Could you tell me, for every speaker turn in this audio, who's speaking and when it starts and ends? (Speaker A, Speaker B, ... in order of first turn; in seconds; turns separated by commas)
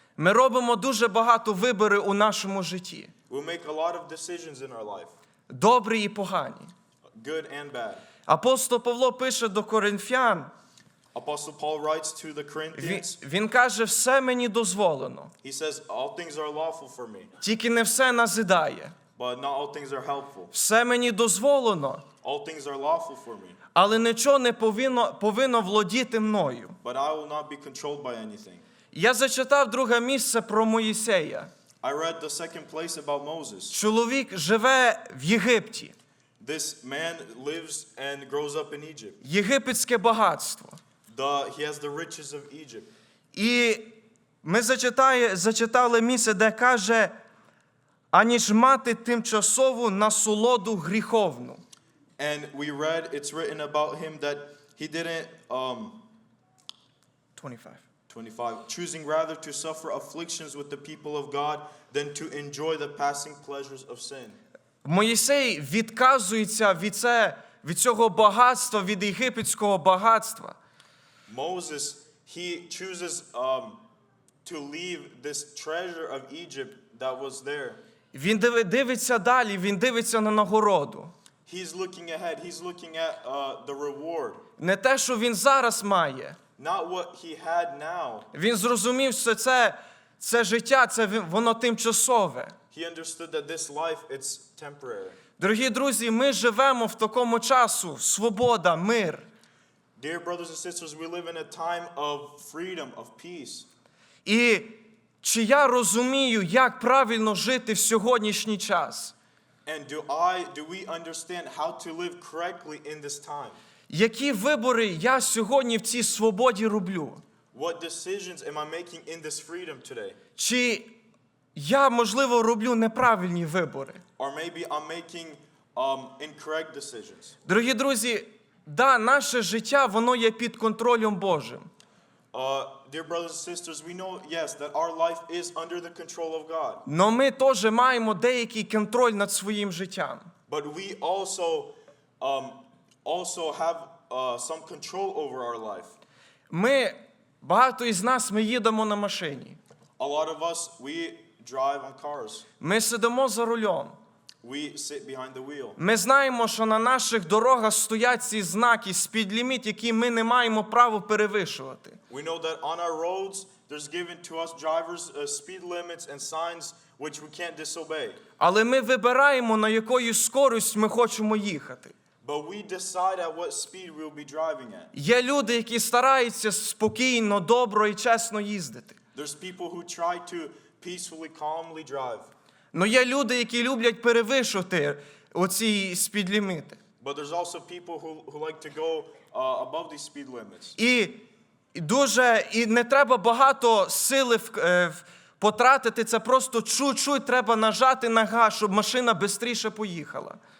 Speaker A: 0.2-3.1, Speaker B: 3.3-5.1, Speaker A: 5.5-6.7, Speaker B: 7.1-8.1, Speaker A: 8.3-10.5, Speaker B: 11.1-13.2, Speaker A: 12.8-15.3, Speaker B: 15.4-17.3, Speaker A: 17.4-18.9, Speaker B: 19.2-20.5, Speaker A: 20.5-22.1, Speaker B: 22.2-23.6, Speaker A: 23.7-26.8, Speaker B: 26.8-28.6, Speaker A: 28.9-31.5, Speaker B: 31.8-33.8, Speaker A: 33.7-36.0, Speaker B: 36.4-39.2, Speaker A: 39.2-40.8, Speaker B: 41.1-42.9, Speaker A: 43.3-47.1, Speaker A: 48.1-51.6, Speaker B: 52.2-56.0, Speaker A: 57.4-57.8, Speaker B: 58.1-64.4, Speaker A: 64.8-70.6, Speaker B: 71.3-73.8, Speaker B: 74.5-77.8, Speaker A: 78.1-81.1, Speaker B: 81.5-84.4, Speaker A: 84.6-86.4, Speaker B: 86.6-88.3, Speaker A: 88.3-92.5, Speaker B: 92.7-95.2, Speaker A: 95.4-99.3, Speaker B: 100.0-103.7, Speaker A: 104.2-109.1, Speaker B: 109.7-113.6, Speaker A: 113.9-117.2, Speaker B: 117.5-120.2, Speaker A: 120.4-121.0, Speaker A: 121.5-124.0, Speaker B: 124.2-127.3, Speaker A: 127.5-131.7, Speaker B: 132.3-136.8, Speaker A: 136.9-140.3, Speaker B: 140.5-145.9, Speaker A: 146.5-149.6, Speaker B: 150.0-152.5, Speaker A: 152.6-154.0, Speaker B: 154.4-155.8, Speaker A: 155.8-162.0, Speaker B: 162.1-168.2, Speaker A: 168.4-171.9, Speaker B: 172.2-174.9, Speaker A: 174.9-179.0, Speaker B: 179.2-182.3, Speaker A: 182.7-186.8, Speaker B: 187.0-190.8, Speaker A: 190.8-200.4